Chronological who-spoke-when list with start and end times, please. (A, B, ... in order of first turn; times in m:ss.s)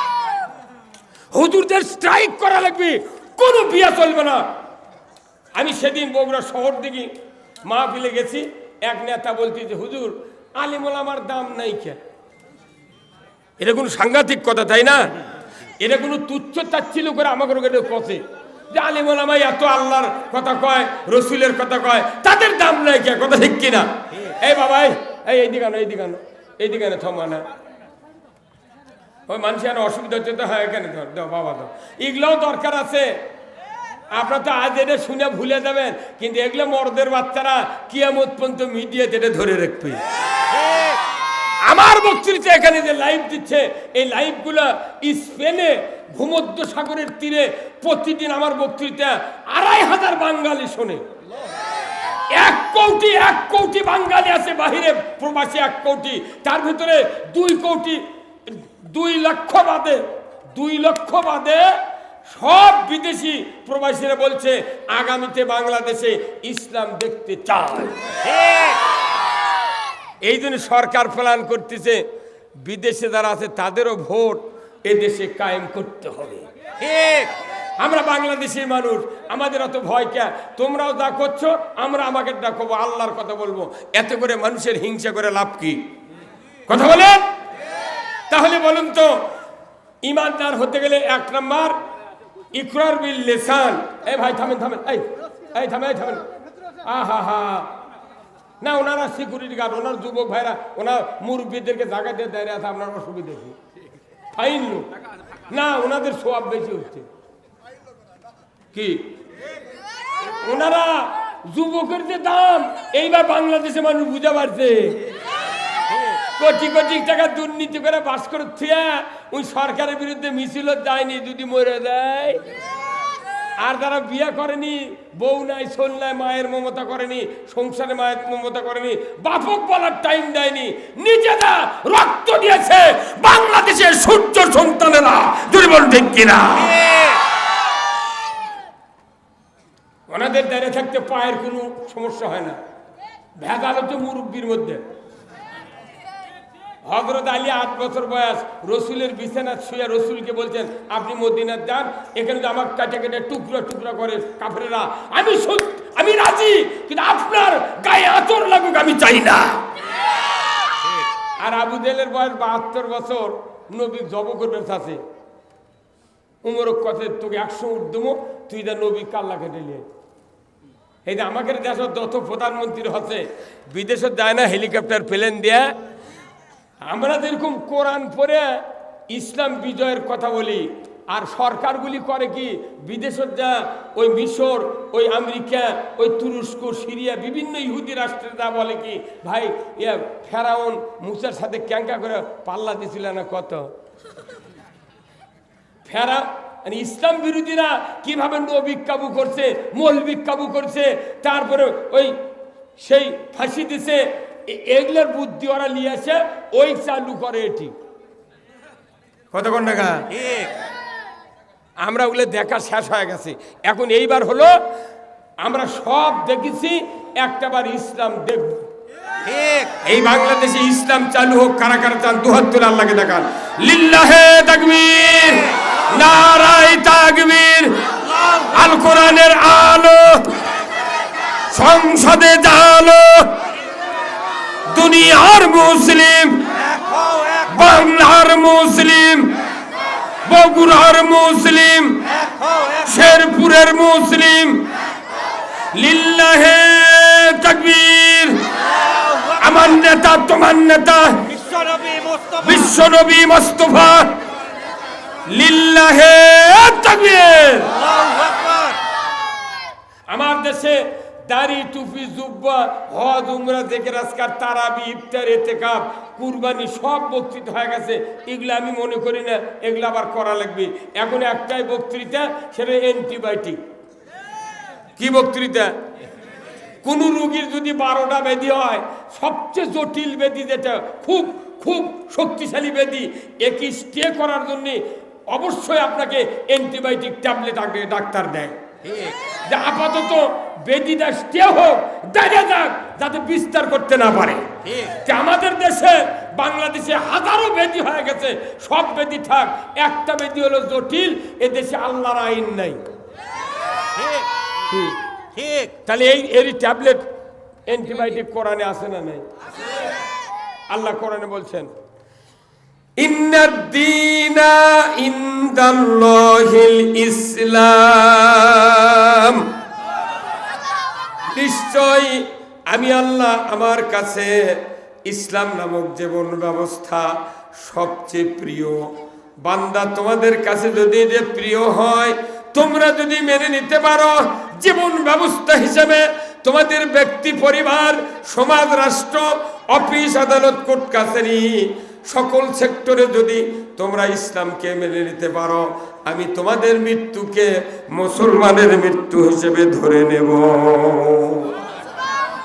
0:01.3-0:04.5 A
0:05.5-0:07.1 A
0:07.6-0:12.0 A
0:13.6-0:15.2 A
0:15.8-0:27.4 A
0:29.3-0:33.2 A
0:34.1-0:40.0 A
0:41.6-0:51.0 A
0:52.3-1:08.1 A
1:10.2-1:12.0 A
1:12.6-1:16.4 A
1:16.8-1:17.3 B
1:17.8-1:25.8 A
1:26.7-1:27.2 A
1:28.3-1:29.3 A
1:30.0-1:31.8 A
1:32.5-1:36.3 A
1:36.8-1:37.8 A
1:38.6-1:43.6 A
1:44.3-1:44.9 A
1:45.5-1:47.1 A
1:48.7-1:49.1 A
1:50.2-1:55.1 A
1:56.2-2:02.4 A
2:03.6-2:17.0 A
2:20.1-2:22.6 A
2:23.4-2:24.8 A
2:26.8-2:39.6 A
2:41.4-2:45.0 A
2:46.4-2:49.8 A
2:51.1-2:55.8 A
2:56.8-3:13.7 A
3:15.8-3:22.2 A
3:22.8-3:27.7 A
3:29.3-3:30.1 A
3:30.2-3:30.5 B
3:31.8-3:34.6 A
3:35.4-3:38.6 A
3:39.2-3:39.7 B
3:39.8-3:50.4 A
3:51.5-3:53.3 A
3:54.7-3:56.5 A
3:56.9-3:57.3 B
3:57.4-3:59.4 A
4:00.2-4:02.2 A
4:02.3-4:02.7 B
4:02.7-4:04.7 A
4:05.7-4:08.5 A
4:09.3-4:11.3 A
4:11.4-4:12.4 B
4:12.4-4:14.2 A
4:15.3-4:17.8 A
4:17.8-4:18.8 B
4:20.1-4:33.6 A
4:35.0-4:35.7 A
4:36.8-4:48.6 A
4:49.4-5:02.8 A
5:04.0-5:04.2 B
5:04.7-5:05.0 A
5:05.4-5:05.7 B
5:05.8-5:07.1 A
5:07.7-5:09.2 A
5:10.7-5:11.7 A
5:13.0-5:19.5 A
5:21.3-5:28.9 A
5:29.4-5:51.5 A